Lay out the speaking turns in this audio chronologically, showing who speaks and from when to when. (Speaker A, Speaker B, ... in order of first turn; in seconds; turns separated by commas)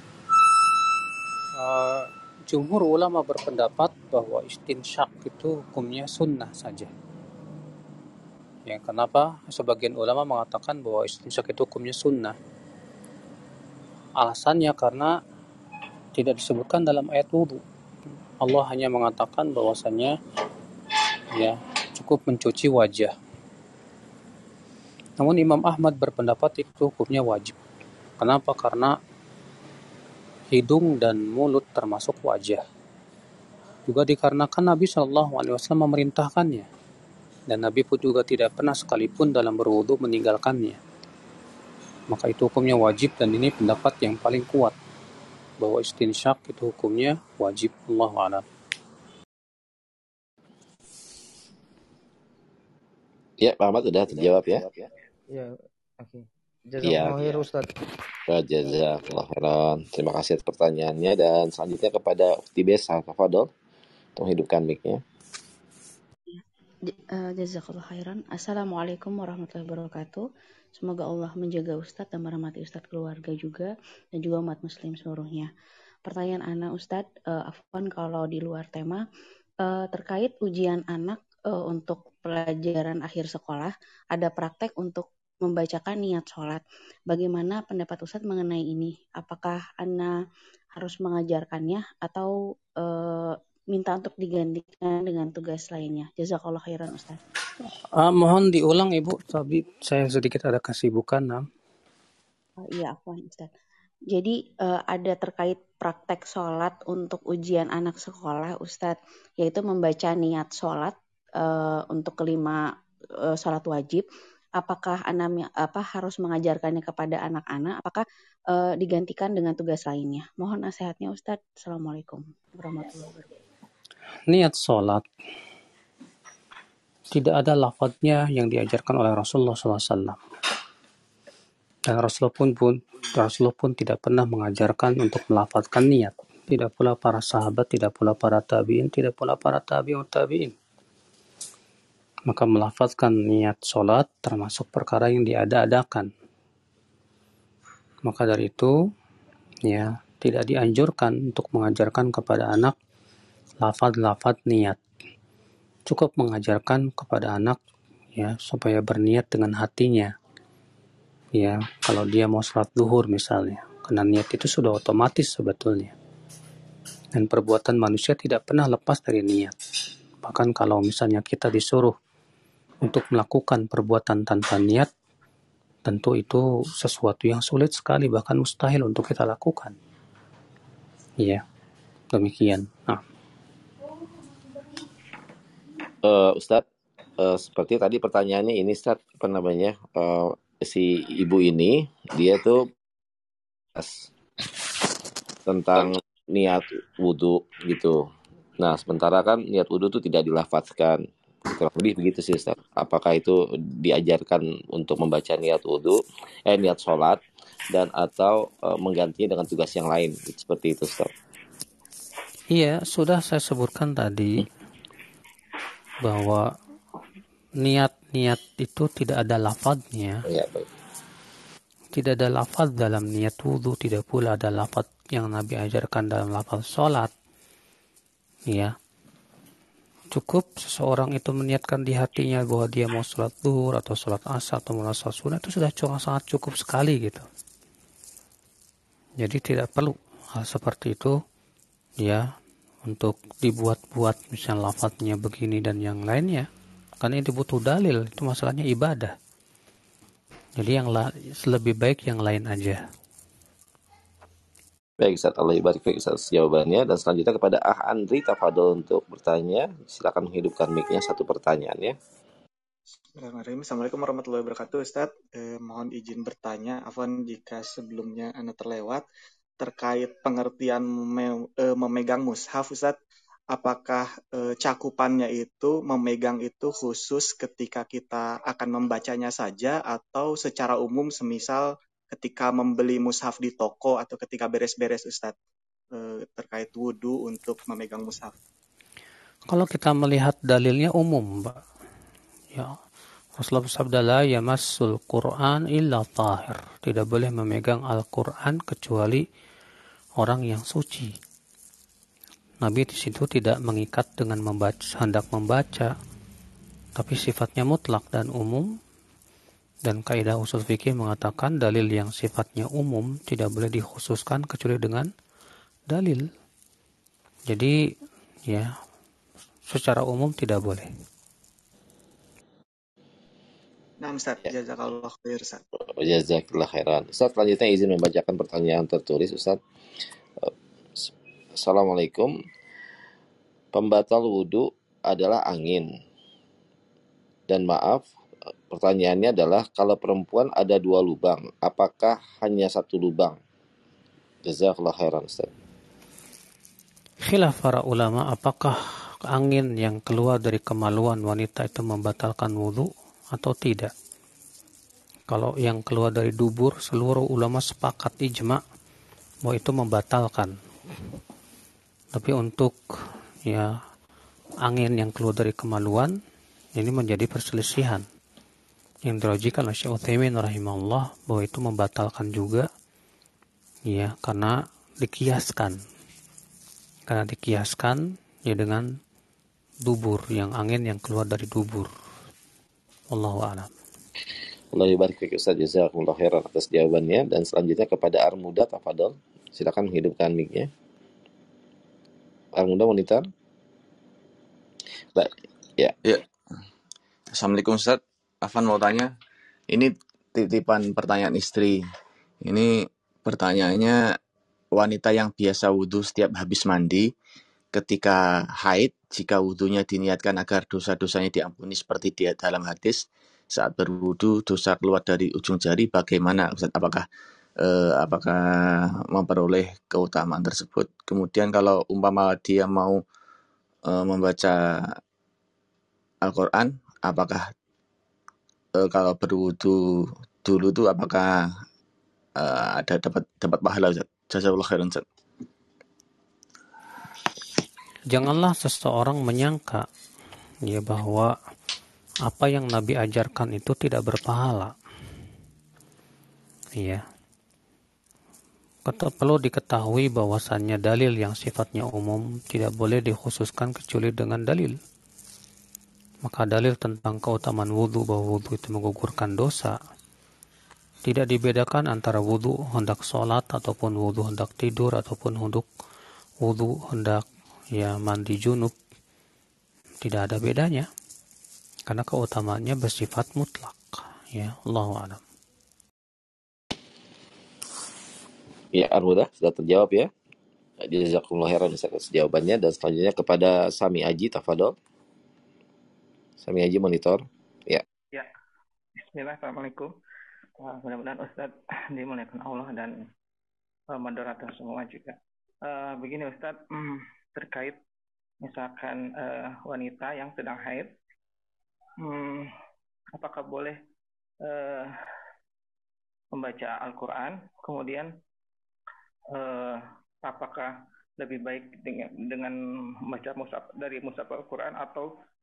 Speaker A: 1.6-6.9, Speaker A: 8.7-12.3, Speaker A: 14.2-15.1, Speaker A: 16.1-17.6, Speaker A: 18.4-20.1, Speaker A: 21.3-23.1, Speaker A: 25.2-27.5, Speaker A: 28.2-28.9, Speaker A: 30.5-32.6, Speaker A: 33.9-36.7, Speaker A: 37.5-40.8, Speaker A: 42.1-44.7, Speaker A: 45.6-48.4, Speaker B: 53.4-54.9, Speaker C: 55.3-57.7, Speaker B: 56.8-57.4, Speaker B: 58.3-63.5, Speaker B: 64.2-65.0, Speaker D: 66.3-70.2, Speaker D: 70.8-75.5, Speaker D: 76.0-79.0, Speaker D: 79.6-90.1, Speaker D: 90.8-97.2, Speaker A: 98.0-101.4, Speaker D: 102.7-103.5, Speaker D: 104.1-112.6, Speaker D: 113.3-114.0, Speaker D: 114.6-123.3, Speaker A: 124.3-125.0, Speaker A: 127.1-130.2, Speaker A: 131.9-140.5, Speaker A: 142.3-146.1, Speaker A: 148.1-148.7, Speaker A: 149.7-152.7, Speaker A: 153.6-154.8, Speaker A: 155.9-157.6, Speaker A: 158.1-160.1, Speaker A: 161.3-165.9, Speaker A: 167.1-169.5, Speaker A: 170.2-171.9, Speaker A: 172.8-174.9, Speaker A: 175.8-179.8, Speaker A: 182.1-183.0, Speaker B: 186.0-186.6, Speaker B: 187.2-192.7, Speaker B: 193.7-194.1, Speaker B: 195.5-198.0, Speaker B: 198.6-207.2, Speaker B: 207.7-211.1, Speaker A: 212.5-214.4, Speaker A: 216.0-216.4, Speaker A: 217.6-220.2, Speaker B: 220.3-220.7, Speaker A: 221.9-227.1, Speaker A: 230.1-237.3, Speaker A: 239.2-241.2, Speaker A: 242.0-242.3, Speaker A: 242.8-246.5, Speaker A: 247.0-249.1, Speaker A: 250.6-252.8, Speaker B: 255.0-261.9, Speaker E: 263.2-269.0, Speaker E: 269.6-273.0, Speaker E: 273.5-285.3, Speaker E: 285.9-288.3, Speaker A: 289.5-291.6, Speaker A: 293.4-299.2, Speaker A: 300.2-301.1, Speaker A: 302.6-305.9, Speaker A: 306.9-308.7, Speaker A: 309.8-315.1, Speaker A: 315.9-316.3, Speaker A: 317.5-317.8, Speaker A: 318.5-318.7, Speaker A: 319.7-320.9, Speaker E: 324.0-325.6, Speaker B: 325.9-329.6, Speaker B: 330.4-332.3, Speaker B: 333.7-335.9, Speaker B: 337.5-338.0, Speaker B: 338.7-343.4, Speaker B: 344.4-345.5, Speaker A: 347.2-353.9, Speaker A: 355.3-358.6, Speaker A: 359.4-360.5, Speaker A: 362.1-362.8, Speaker A: 363.4-363.7, Speaker A: 364.6-366.1, Speaker A: 366.8-368.0, Speaker A: 369.0-372.7, Speaker A: 373.9-375.8, Speaker A: 377.1-378.9, Speaker A: 379.9-381.9, Speaker A: 383.1-383.7, Speaker B: 384.7-390.7, Speaker B: 392.6-393.3, Speaker B: 395.1-395.9, Speaker F: 397.3-399.1, Speaker F: 399.7-401.8, Speaker F: 402.4-404.0, Speaker F: 404.7-407.1, Speaker F: 407.7-417.1, Speaker F: 417.6-423.0, Speaker F: 423.9-425.0, Speaker F: 426.2-427.5, Speaker F: 428.8-431.5, Speaker F: 432.4-435.0, Speaker A: 438.1-439.9, Speaker A: 440.6-441.3, Speaker A: 442.3-444.7, Speaker A: 446.8-447.0, Speaker A: 448.8-454.8, Speaker A: 456.2-459.8, Speaker A: 461.0-465.7, Speaker A: 466.4-468.8, Speaker A: 470.0-470.9, Speaker A: 471.9-475.2, Speaker B: 478.7-480.1, Speaker B: 480.8-484.7, Speaker B: 486.4-487.8, Speaker G: 489.0-489.9, Speaker G: 490.6-493.0, Speaker G: 493.9-497.8, Speaker G: 498.4-500.9, Speaker G: 502.0-502.5, Speaker G: 503.1-503.8, Speaker G: 504.4-504.9, Speaker G: 506.3-508.1, Speaker G: 509.3-515.1